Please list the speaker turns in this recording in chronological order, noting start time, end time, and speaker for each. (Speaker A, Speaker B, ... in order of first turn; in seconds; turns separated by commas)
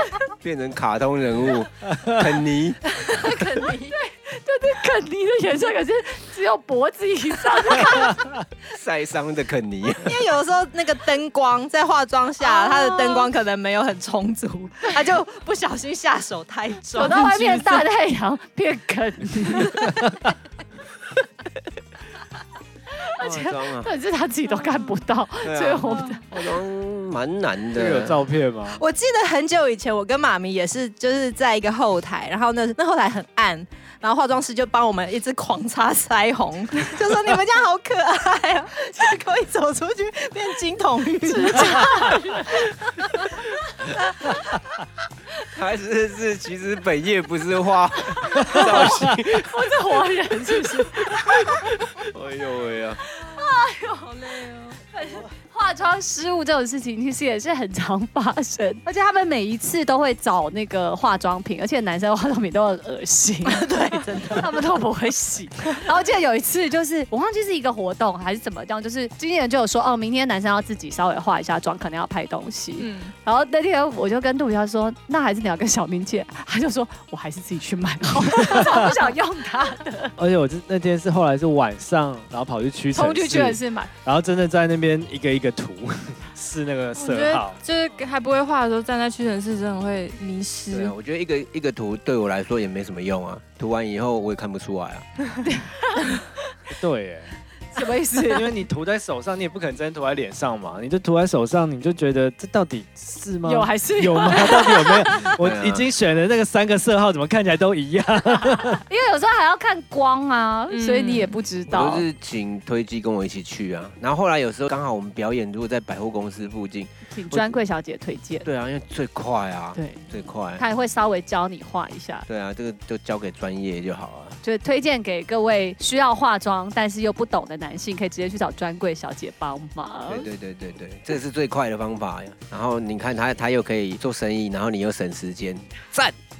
Speaker A: 0.4-2.9, Speaker B: 1.9-2.3, Speaker C: 2.9-4.0, Speaker D: 3.9-8.3, Speaker B: 8.0-8.3, Speaker A: 8.7-10.2, Speaker C: 10.0-17.9, Speaker D: 12.4-13.3, Speaker D: 16.9-20.1, Speaker D: 23.1-26.2, Speaker A: 23.2-23.9, Speaker A: 25.4-28.3, Speaker B: 27.7-28.8, Speaker C: 28.7-42.1, Speaker D: 41.2-42.7, Speaker A: 45.5-49.9, Speaker D: 48.4-51.6, Speaker A: 51.0-53.0, Speaker D: 53.2-54.1, Speaker E: 54.0-54.8, Speaker D: 54.9-80.2, Speaker C: 63.5-64.5, Speaker E: 72.8-73.1, Speaker B: 78.4-79.0, Speaker B: 80.2-87.6, Speaker D: 82.9-83.9, Speaker E: 87.0-90.9, Speaker A: 90.7-95.1, Speaker D: 95.4-96.3, Speaker B: 96.7-97.4, Speaker D: 97.7-98.6, Speaker B: 98.2-108.8, Speaker D: 103.4-105.2, Speaker A: 105.4-105.9, Speaker D: 108.8-112.0, Speaker E: 110.7-111.4, Speaker A: 111.7-117.6, Speaker D: 117.1-118.5, Speaker A: 118.4-120.6, Speaker D: 119.8-122.3, Speaker A: 122.3-124.4, Speaker D: 124.4-130.3, Speaker A: 130.1-136.2